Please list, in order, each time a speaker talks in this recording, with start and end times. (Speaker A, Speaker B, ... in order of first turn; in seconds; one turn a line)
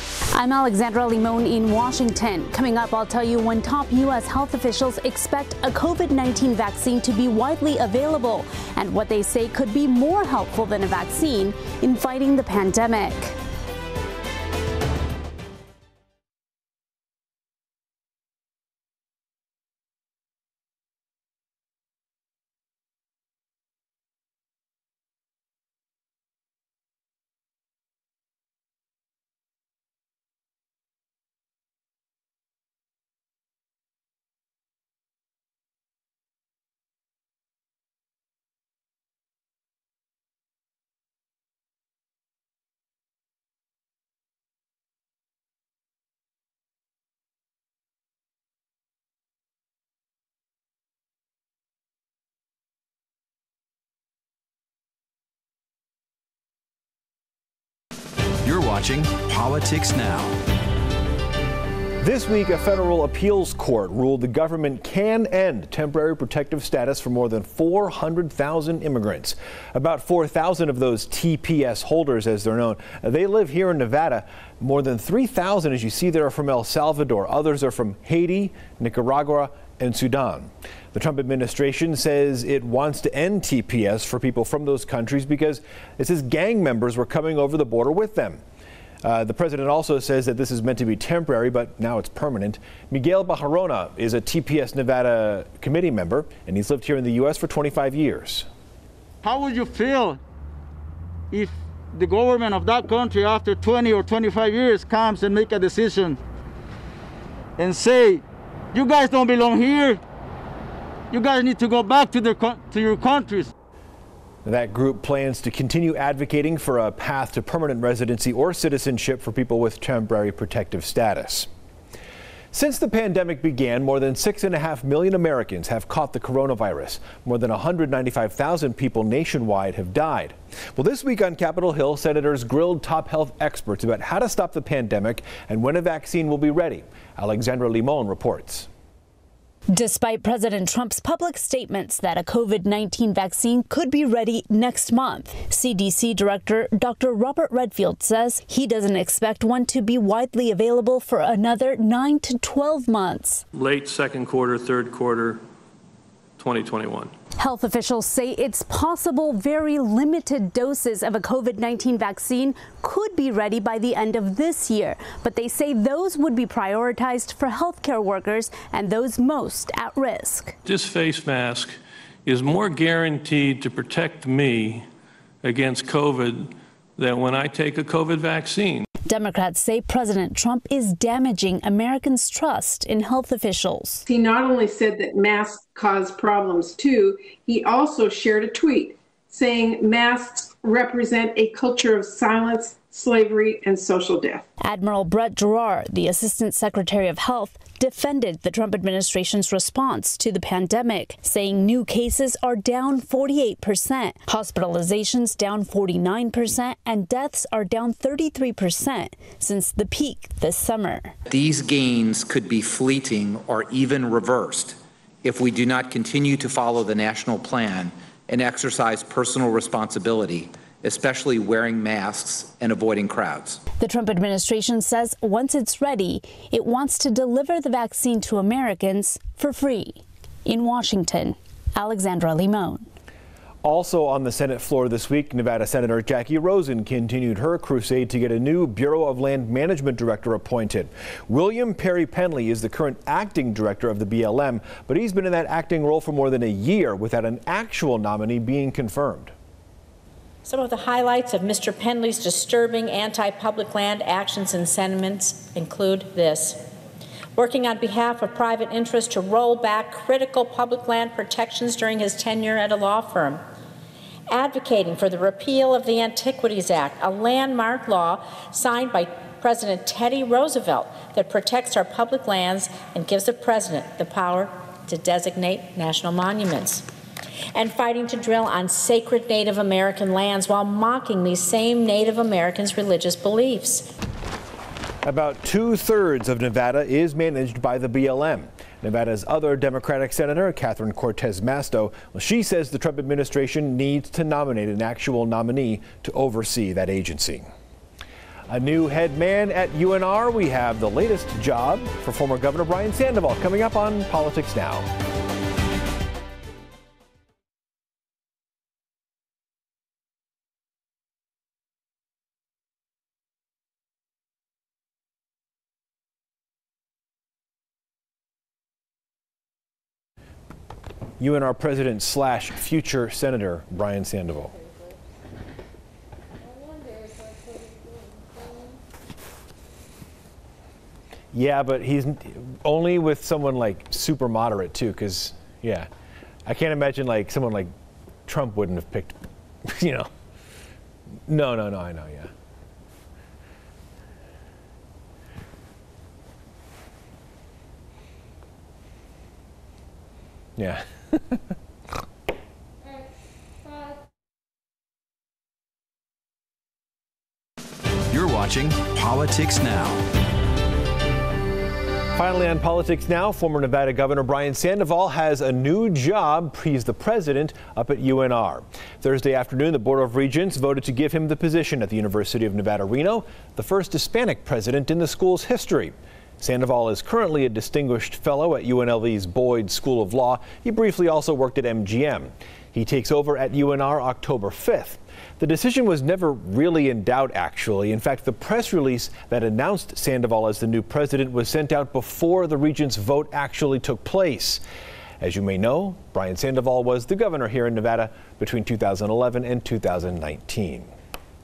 Speaker A: 0.3-13.3
Speaker B: 58.4-60.4
Speaker C: 62.0-88.4
Speaker C: 89.0-98.5
Speaker D: 99.2-100.2
Speaker D: 101.3-106.2
Speaker D: 107.6-108.2
Speaker D: 108.7-110.0
Speaker D: 111.1-113.5
Speaker C: 114.4-121.5
Speaker C: 122.5-138.7
Speaker A: 139.7-153.4
Speaker E: 153.5-155.4
Speaker E: 156.4-157.1
Speaker A: 157.4-170.6
Speaker E: 170.6-174.9
Speaker E: 175.4-178.9
Speaker A: 179.1-184.0
Speaker F: 184.1-194.4
Speaker A: 194.6-211.1
Speaker G: 211.3-223.6
Speaker A: 223.8-232.9
Speaker C: 233.6-249.3
Speaker H: 250.4-256.7
Speaker H: 257.3-263.4
Speaker H: 264.3-276.9
Speaker H: 277.5-283.9
Speaker C: 285.0-297.5
Speaker C: 298.5-304.9
Speaker C: 321.2-324.5
Speaker C: 331.3-335.9
Speaker C: 336.4-337.7
Speaker C: 338.2-340.1
Speaker C: 341.3-342.3
Speaker C: 350.6-351.4
Speaker B: 358.1-360.0
Speaker C: 362.1-394.6
Speaker C: 395.2-400.9